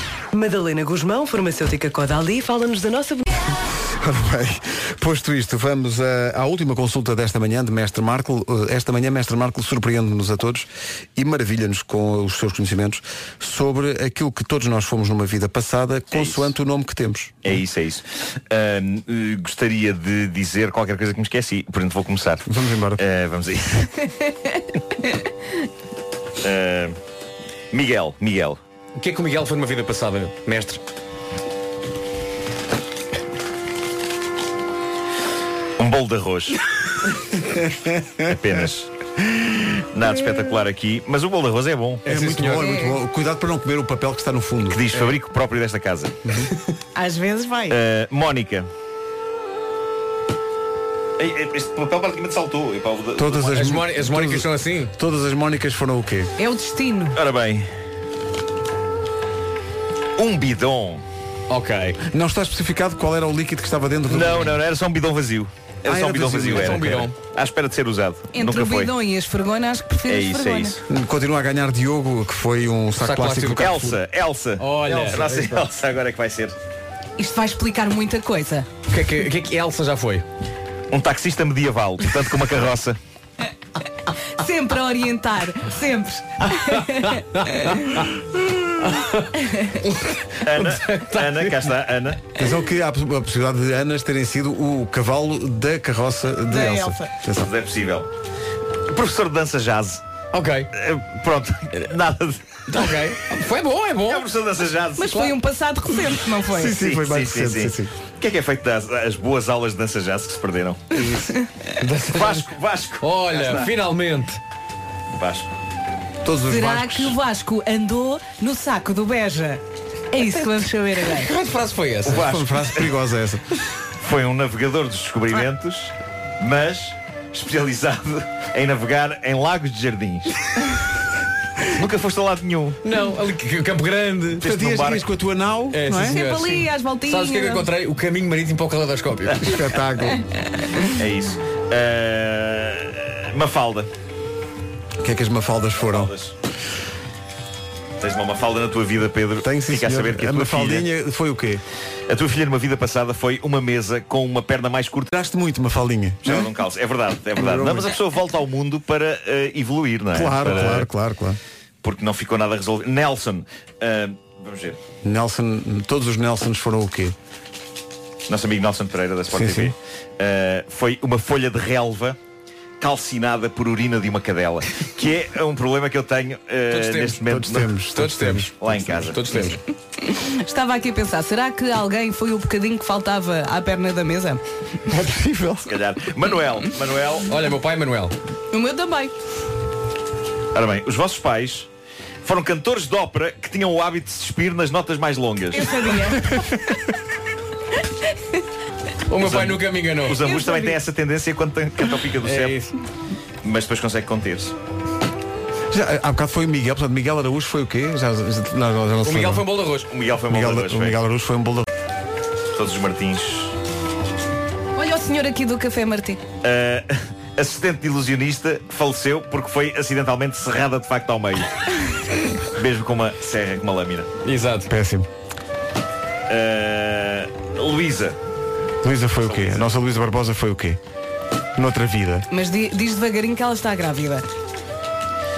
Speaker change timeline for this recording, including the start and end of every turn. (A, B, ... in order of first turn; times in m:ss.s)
0:00.3-0:03.5 A
0:03.8-0:17.5 B
0:16.1-0:16.5 C
0:17.4-0:22.4 C
0:22.5-0:23.0 B
0:23.0-0:24.1 C
0:26.4-0:27.0 C
0:27.7-0:28.6 C
0:29.0-0:30.8 D
0:35.8-0:36.6 C
0:37.5-0:38.2 B
0:38.2-0:38.9 C
0:39.9-0:42.0 C
0:42.0-0:42.7 D
0:42.1-0:44.8 B
0:42.6-0:43.0 E
0:44.7-0:46.2 C
0:47.0-0:47.8 E
0:47.7-0:48.7 C
0:51.2-0:53.7 C
0:53.2-0:56.3 B
0:53.5-0:54.9 D
0:56.4-0:57.2 E
0:57.1-0:57.7 C
1:00.2-1:01.0 C
1:01.5-1:02.0 D
1:02.1-1:04.6 B
1:04.1-1:08.9 C
1:05.9-1:07.0 B
1:06.4-1:07.1 D
1:08.3-1:10.8 E
1:10.1-1:10.8 C
1:10.9-1:14.0 B
1:13.0-1:13.7 D
1:13.6-1:16.6 C
1:14.6-1:15.4 D
1:14.9-1:15.4 B
1:17.2-1:18.7 E
1:18.9-1:20.2 D
1:20.9-1:23.0 C
1:24.4-1:28.0 E
1:26.7-1:28.1 D
1:28.8-1:31.8 D
1:30.4-1:32.3 C
1:32.4-1:37.5 B
1:36.5-1:37.1 E
1:37.3-1:38.1 C
1:38.9-1:40.0 C
1:40.3-1:40.7 D
1:40.7-1:43.0 C
1:42.7-1:44.3 D
1:44.1-1:45.3 C
1:45.0-1:46.8 E
1:46.5-1:47.9 B
1:46.7-1:51.0 C
1:51.8-1:52.5 D
1:52.1-1:53.7 C
1:53.0-1:54.4 D
1:55.1-1:55.5 C
1:56.2-1:57.2 B
1:56.5-1:59.6 E
2:00.1-2:01.3 E
2:01.1-2:02.2 D
2:02.0-2:02.9 C
2:02.1-2:03.4 B
2:04.0-2:10.4 C
2:11.7-2:12.8 C
2:12.8-2:14.5 D
2:14.4-2:15.1 C
2:14.4-2:16.2 B
2:15.7-2:19.4 D
2:16.0-2:17.7 E
2:19.4-2:20.2 B
2:21.0-2:23.9 C
2:25.0-2:26.1 B
2:25.8-2:26.3 C
2:28.0-2:30.9 C
2:29.4-2:31.6 B
2:32.1-2:35.1 C
2:35.1-2:36.5 B
2:36.2-2:40.9 C
2:37.4-2:38.0 B
2:40.1-2:41.4 B
2:41.8-2:44.8 C
2:45.0-2:47.2 B
2:48.3-2:52.2 C
2:49.3-2:49.8 B
2:52.8-2:57.7 C
2:56.7-2:57.2 D
2:57.2-2:58.7 B
2:57.9-2:59.6 D
2:58.6-2:59.6 C
3:00.0-3:04.4 E
3:04.9-3:05.7 B
3:05.7-3:07.3 C
3:07.3-3:08.1 D
3:08.5-3:09.1 E
3:10.5-3:11.7 C
3:12.2-3:16.2 C
3:15.5-3:16.5 E
3:19.1-3:20.2 D
3:19.2-3:22.6 C
3:20.1-3:20.8 E
3:22.2-3:22.7 D
3:23.4-3:24.5 C
3:25.7-3:29.4 B
3:29.0-3:29.9 D
3:29.9-3:31.0 C
3:30.3-3:31.7 B
3:32.6-3:33.5 C
3:34.8-3:36.2 E
3:36.4-3:41.6 C
3:42.6-3:44.1 C
3:44.2-3:44.7 D
3:44.7-3:45.1 B
3:46.3-3:48.2 C
3:48.8-3:50.8 B
3:51.6-3:52.3 B
3:52.3-3:54.2 E